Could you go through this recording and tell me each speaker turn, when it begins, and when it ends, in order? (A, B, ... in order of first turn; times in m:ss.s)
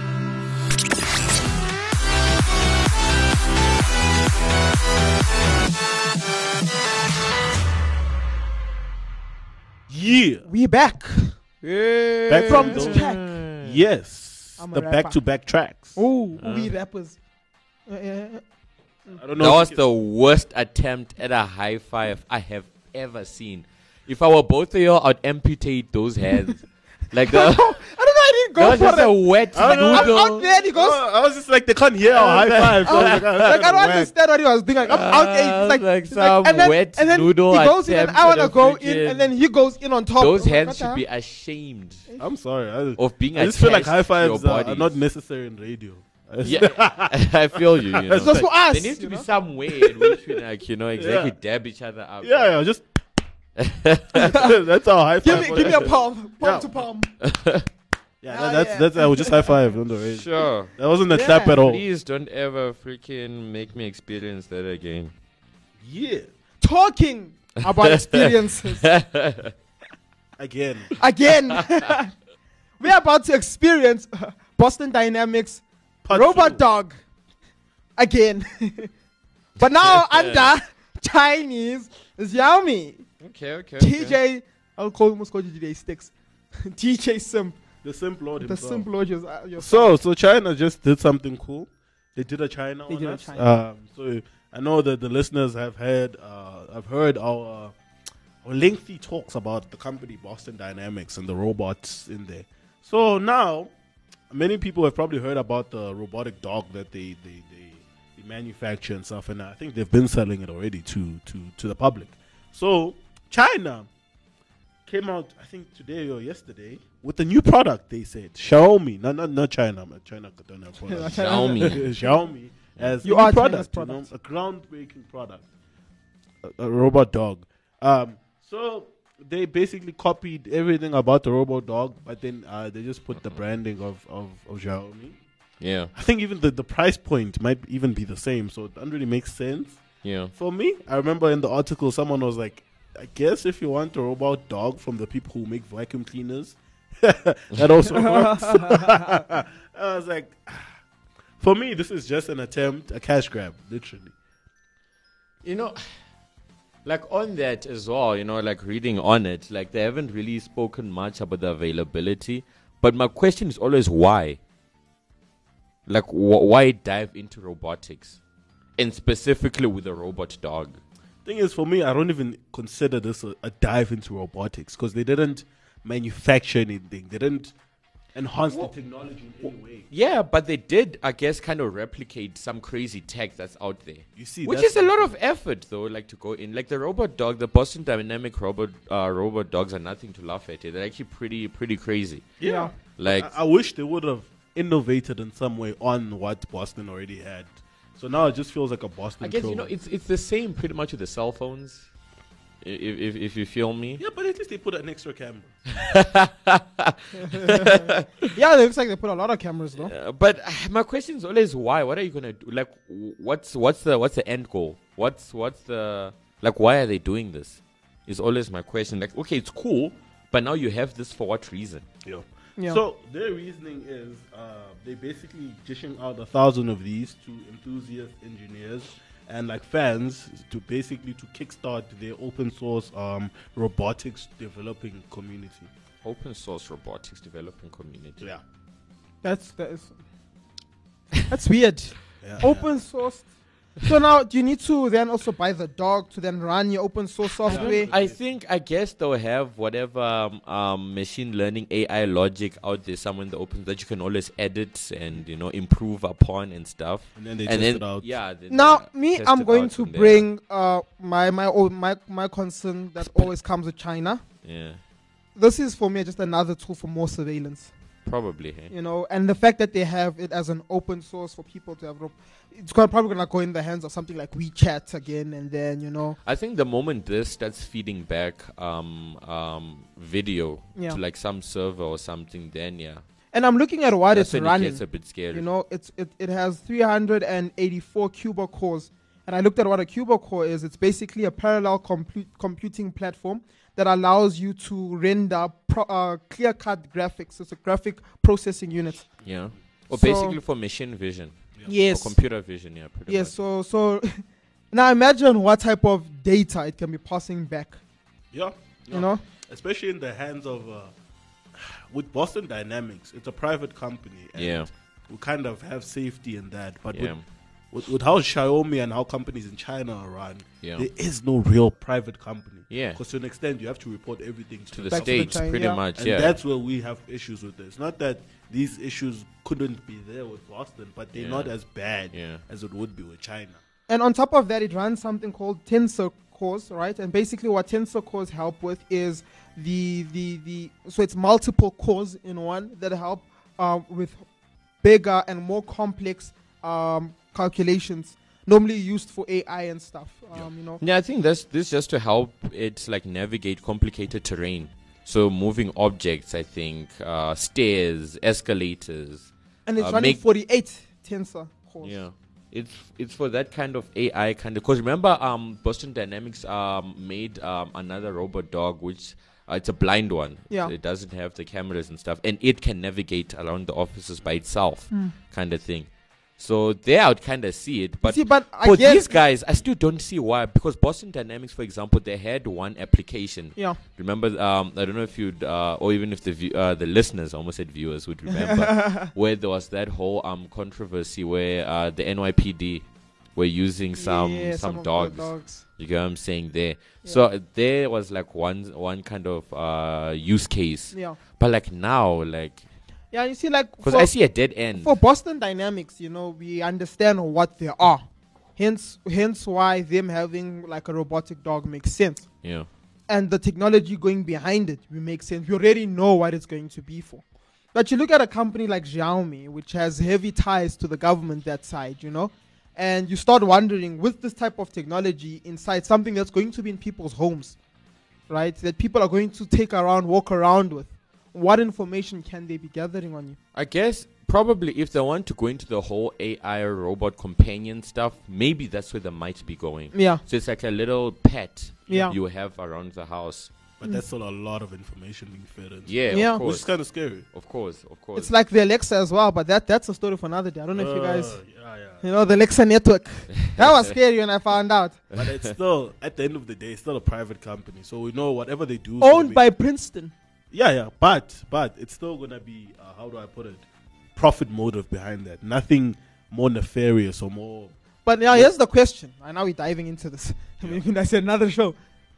0:09.9-0:10.4 A
0:10.4-0:11.4 B
0:11.6-0:13.8 C
0:12.3-0:13.1 A
0:12.4-0:13.3 B
0:13.6-0:16.0 A
0:14.6-0:15.2 B
0:16.0-0:17.2 B
0:16.4-0:16.7 C
0:17.9-0:18.4 B
0:19.1-0:19.8 A
0:19.4-0:27.8 C
0:27.3-0:31.0 B
0:28.6-0:30.5 C
0:29.5-0:34.1 A
0:32.1-0:33.4 C
0:32.8-0:41.0 B
0:34.9-0:39.3 C
0:40.2-0:42.0 C
0:42.2-0:48.4 A
0:43.0-0:45.0 C
0:46.4-0:52.5 C
0:48.2-0:49.3 B
0:49.7-0:50.4 A
0:51.0-0:51.3 A
0:52.2-0:52.8 A
0:53.6-0:54.5 C
0:54.1-0:56.7 A
0:55.2-0:57.1 B
0:55.3-0:55.8 C
0:57.2-0:57.6 C
0:58.2-1:01.8 A
0:58.3-0:59.5 B
1:00.1-1:00.7 C
1:01.1-1:01.6 B
1:01.6-1:05.1 C
1:05.8-1:06.3 A
1:06.6-1:08.9 B
1:07.6-1:09.5 C
1:10.4-1:10.9 A
1:11.0-1:12.1 B
1:12.8-1:17.0 B
1:16.0-1:16.6 A
1:18.0-1:18.9 B
1:19.6-1:23.0 B
1:19.8-1:20.5 C
1:23.2-1:24.2 C
1:23.8-1:27.6 B
1:27.8-1:28.9 A
1:28.4-1:29.9 B
1:29.6-1:37.7 A
1:32.9-1:33.5 B
1:38.4-1:43.7 A
1:44.3-1:53.9 A
1:54.8-2:05.4 A
2:00.9-2:01.8 B
2:01.1-2:01.9 C
2:03.0-2:04.1 B
2:06.4-2:15.2 A
2:15.6-2:15.9 C
2:15.9-2:19.8 A
2:20.0-2:20.3 C
2:20.3-2:30.7 A
2:28.0-2:29.0 B
2:31.4-2:34.1 A
2:35.4-2:35.8 C
2:36.8-2:44.4 C
2:45.9-2:48.2 C
2:48.8-2:50.8 C
2:51.2-2:57.5 A
2:58.1-2:59.9 A
2:59.9-3:12.4 C
3:04.2-3:05.1 A
3:12.4-3:19.7 A
3:12.4-3:12.7 B
3:12.9-3:13.3 C
3:19.2-3:21.9 C
3:22.6-3:24.0 C
3:24.0-3:25.5 A
3:25.7-3:28.3 C
3:27.2-3:29.9 B
3:29.8-3:41.8 C
3:42.0-3:55.7 A
3:56.0-3:58.2 C
3:59.2-3:59.9 B
4:01.3-4:03.2 B
4:02.2-4:02.7 A
4:03.8-4:07.9 B
4:07.4-4:20.2 C
4:07.4-4:08.2 A
4:17.2-4:18.0 A
4:18.5-4:24.2 B
4:23.0-4:23.3 C
4:24.4-4:24.8 C
4:25.4-4:27.7 B
4:28.0-4:28.7 C
4:28.7-4:36.2 B
4:36.2-4:43.0 C
4:43.3-4:59.0 B
4:44.1-4:45.4 C
4:59.2-5:03.3 C
4:59.9-5:00.4 B
5:01.7-5:02.2 B
5:03.1-5:07.8 B
5:08.3-5:10.9 A
5:08.9-5:09.2 B
5:11.5-5:17.1 A
5:14.4-5:14.7 C
5:16.9-5:17.2 C
5:17.7-5:33.6 A
5:22.7-5:23.0 C
5:24.7-5:26.4 C
5:24.9-5:25.8 B
5:31.1-5:31.5 C
5:32.1-5:32.4 C
5:33.9-5:44.2 B
5:44.8-5:50.8 B
5:50.8-6:00.2 C
5:59.7-6:02.0 B
6:01.8-6:42.6 C
6:18.0-6:19.1 B
6:28.3-6:29.1 B
6:34.0-6:35.6 B
6:40.9-6:41.2 B
6:43.1-6:44.1 B
6:43.8-6:44.9 C
6:44.7-6:48.0 B
6:48.6-6:52.2 B
6:52.4-6:52.7 C
6:53.1-6:57.2 B
6:57.7-7:07.6 B
7:08.3-7:13.4 B
7:13.5-7:23.5 C
7:19.9-7:20.2 B
7:21.9-7:22.1 B
7:23.8-7:27.2 A
7:25.9-7:26.7 C
7:26.1-7:26.4 B
7:27.3-7:28.3 C
7:28.2-7:31.4 B
7:30.7-7:32.0 A
7:32.0-7:35.0 B
7:33.4-7:33.9 C
7:35.1-7:35.5 C
7:35.1-7:39.4 A
7:39.0-7:40.1 B
7:40.5-7:43.6 A
7:44.2-7:47.7 A
7:48.0-7:51.8 B